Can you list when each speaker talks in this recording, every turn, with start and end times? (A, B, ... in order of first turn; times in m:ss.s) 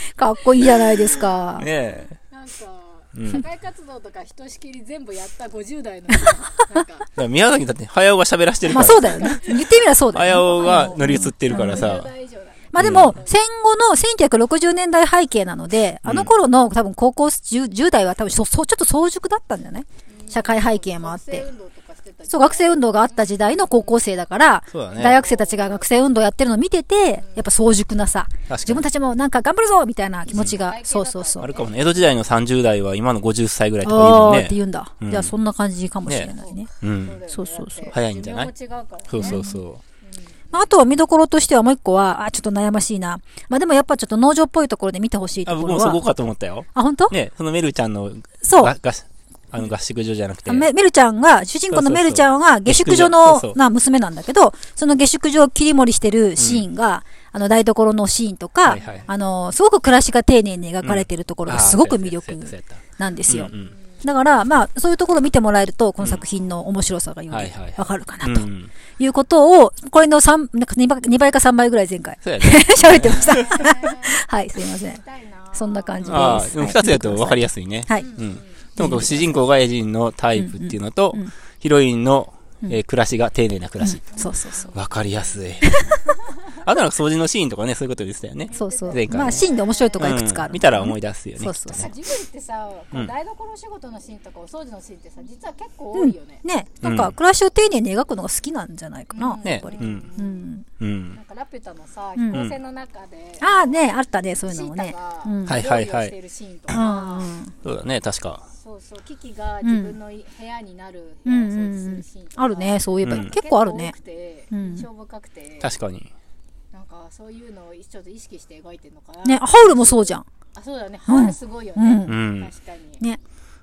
0:00.1-0:01.7 A
0:01.1-0:01.7 B
0:01.6-0:02.2 C
0:02.3-0:07.1 B
0:03.1-0:03.4 C
0:07.2-0:09.4 C
0:08.7-0:12.0 A
0:08.9-0:09.6 B
0:10.1-0:12.1 C
0:10.3-0:13.4 B
0:12.7-0:21.5 A
0:12.8-0:13.2 C
0:16.0-0:16.3 C
0:20.1-0:24.2 B
0:22.3-0:31.5 A
0:24.7-0:25.2 C
0:25.0-0:25.9 B
0:27.1-0:27.5 B
0:28.5-0:28.8 C
0:30.3-0:30.6 C
0:30.4-0:32.2 B
0:31.4-0:35.3 C
0:33.8-0:36.7 A
0:36.1-0:37.2 C
0:36.4-0:39.4 B
0:37.3-0:37.9 A
0:37.9-0:38.5 C
0:39.1-0:39.8 C
0:39.2-0:39.6 A
0:40.0-0:40.7 B
0:40.5-0:46.0 A
0:45.4-0:50.7 C
0:46.8-0:47.2 A
0:48.4-0:48.7 A
0:50.5-1:08.5 A
0:51.7-0:53.6 C
0:56.4-0:56.7 C
0:58.7-0:59.0 C
0:58.8-0:59.1 B
1:00.8-1:03.7 C
1:03.0-1:04.1 B
1:07.3-1:08.7 C
1:09.0-1:18.1 A
1:12.2-1:13.6 C
1:13.2-1:14.2 B
1:14.9-1:16.5 B
1:16.0-1:24.2 C
1:18.0-1:18.8 B
1:18.8-1:19.2 A
1:20.4-1:21.3 A
1:23.8-1:24.7 A
1:24.1-1:25.8 B
1:24.7-1:25.9 C
1:25.6-1:25.9 A
1:26.6-1:29.5 C
1:28.5-1:30.1 B
1:28.5-1:31.9 A
1:30.0-1:31.9 C
1:31.7-1:36.4 B
1:35.9-1:40.6 A
1:36.8-1:37.2 C
1:39.1-1:40.5 B
1:39.4-1:40.1 C
1:40.8-1:41.2 C
1:41.1-1:43.8 B
1:42.2-1:42.5 A
1:43.4-1:45.6 A
1:44.4-1:47.3 B
1:45.5-1:46.1 C
1:46.7-1:47.5 A
1:47.6-1:48.4 C
1:48.5-1:55.7 B
1:49.6-1:50.0 A
1:51.3-1:54.0 A
1:53.0-1:53.4 C
1:54.5-1:54.9 A
1:55.6-1:56.1 C
1:56.7-2:03.0 B
1:59.2-2:00.3 A
2:01.1-2:02.2 A
2:02.1-2:02.5 C